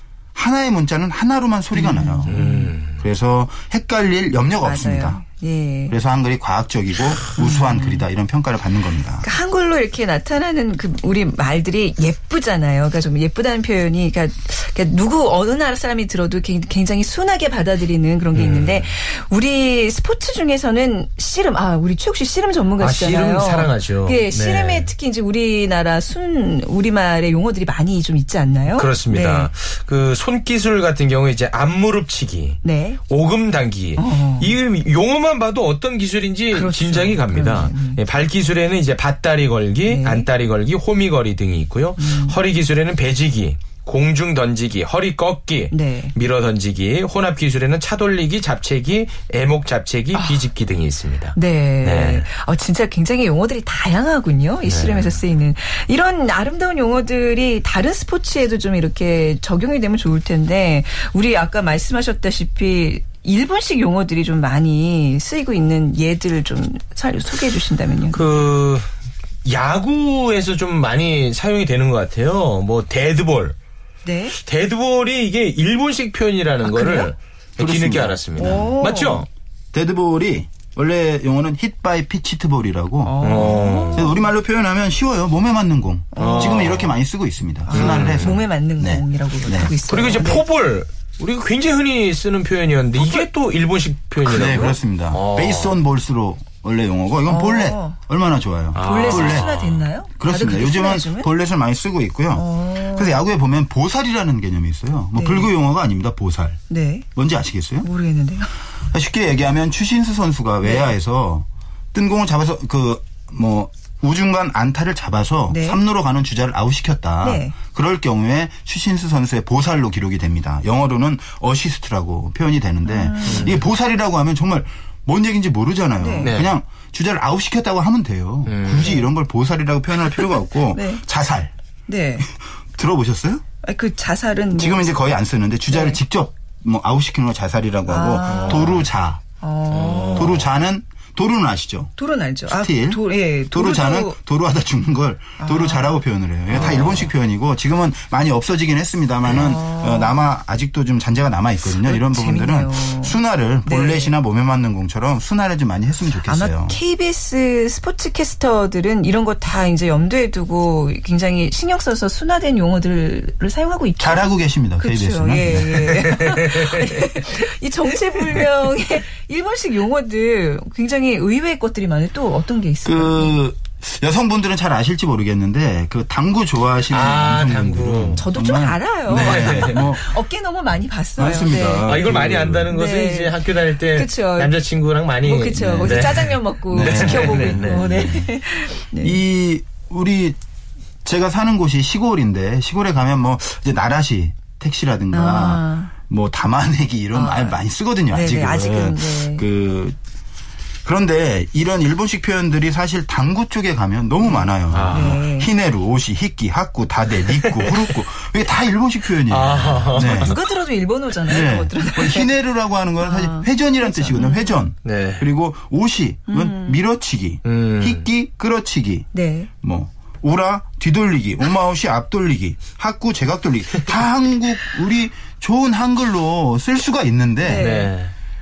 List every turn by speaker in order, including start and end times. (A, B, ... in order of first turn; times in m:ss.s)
0:00.3-0:05.2 A
0:01.7-0:02.7 B
0:02.2-0:03.0 C
0:04.6-0:06.0 B
0:05.9-0:09.2 A
0:07.4-0:08.0 B
0:09.2-0:29.5 B
0:18.3-0:18.9 C
0:22.8-0:24.9 C
0:28.7-0:52.2 C
0:32.6-0:33.0 B
0:34.0-0:34.5 B
0:36.5-0:38.0 B
0:39.8-0:40.3 B
0:42.0-0:42.4 B
0:45.7-0:46.1 B
0:50.1-0:50.4 B
0:51.3-1:08.2 B
0:54.6-0:55.2 C
1:08.1-1:08.9 C
1:09.4-1:13.5 C
1:14.0-1:14.4 B
1:14.4-1:19.3 C
1:16.6-1:17.1 B
1:17.6-1:18.6 A
1:18.4-1:19.2 B
1:19.7-1:29.7 A
1:23.0-1:24.3 B
1:23.2-1:24.1 C
1:26.1-1:26.8 B
1:26.2-1:26.9 C
1:27.7-1:30.4 B
1:27.7-1:28.4 C
1:29.8-1:35.8 C
1:32.9-1:33.3 B
1:34.2-1:39.5 A
1:37.3-1:38.0 B
1:38.7-1:39.8 C
1:38.8-1:41.3 B
1:40.2-1:46.6 A
1:42.3-1:43.2 B
1:45.2-1:45.5 B
1:46.7-1:47.0 B
1:47.1-1:47.9 A
1:47.8-1:48.6 B
1:48.9-2:11.5 A
1:50.6-1:50.9 B
1:55.5-1:55.8 B
1:57.2-1:57.5 B
2:02.8-2:03.6 B
2:03.2-2:03.6 C
2:06.0-2:06.3 B
2:06.2-2:06.5 C
2:08.5-2:08.9 C
2:08.8-2:09.1 B
2:10.7-2:11.0 B
2:11.9-2:12.3 B
2:12.3-2:13.4 A
2:13.6-2:15.0 B
2:14.5-2:19.2 A
2:15.7-2:16.0 B
2:17.9-2:18.8 B
2:18.3-2:18.8 C
2:19.4-2:20.4 B
2:19.7-2:20.5 C
2:20.0-2:21.9 A
2:22.0-2:24.2 B
2:22.5-2:36.8 A
2:25.4-2:25.9 B
2:26.5-2:27.1 C
2:29.3-2:30.2 B
2:31.7-2:34.1 B
2:36.2-2:53.4 B
2:44.0-2:46.2 A
2:46.2-2:46.9 C
2:52.8-3:00.1 A
2:56.9-2:58.2 C
2:58.1-3:04.6 B
2:59.1-2:59.8 C
3:01.2-3:02.7 A
3:01.8-3:08.0 C
3:05.2-3:09.2 B
3:05.6-3:08.4 A
3:09.0-3:10.4 A
3:11.0-3:20.0 A
3:15.1-3:15.9 B
3:17.1-3:19.4 B
3:20.8-3:30.4 A
3:24.2-3:25.5 B
3:24.7-3:25.2 C
3:27.2-3:27.9 C
3:29.3-3:30.4 C
3:30.0-3:32.3 B
3:31.2-3:39.1 A
3:33.0-3:34.7 B
3:34.8-3:35.3 C
3:36.3-3:36.8 B
3:37.4-3:38.0 C
3:39.1-3:39.5 B
3:39.6-3:47.8 A
3:47.4-3:47.9 B
3:47.6-3:48.1 C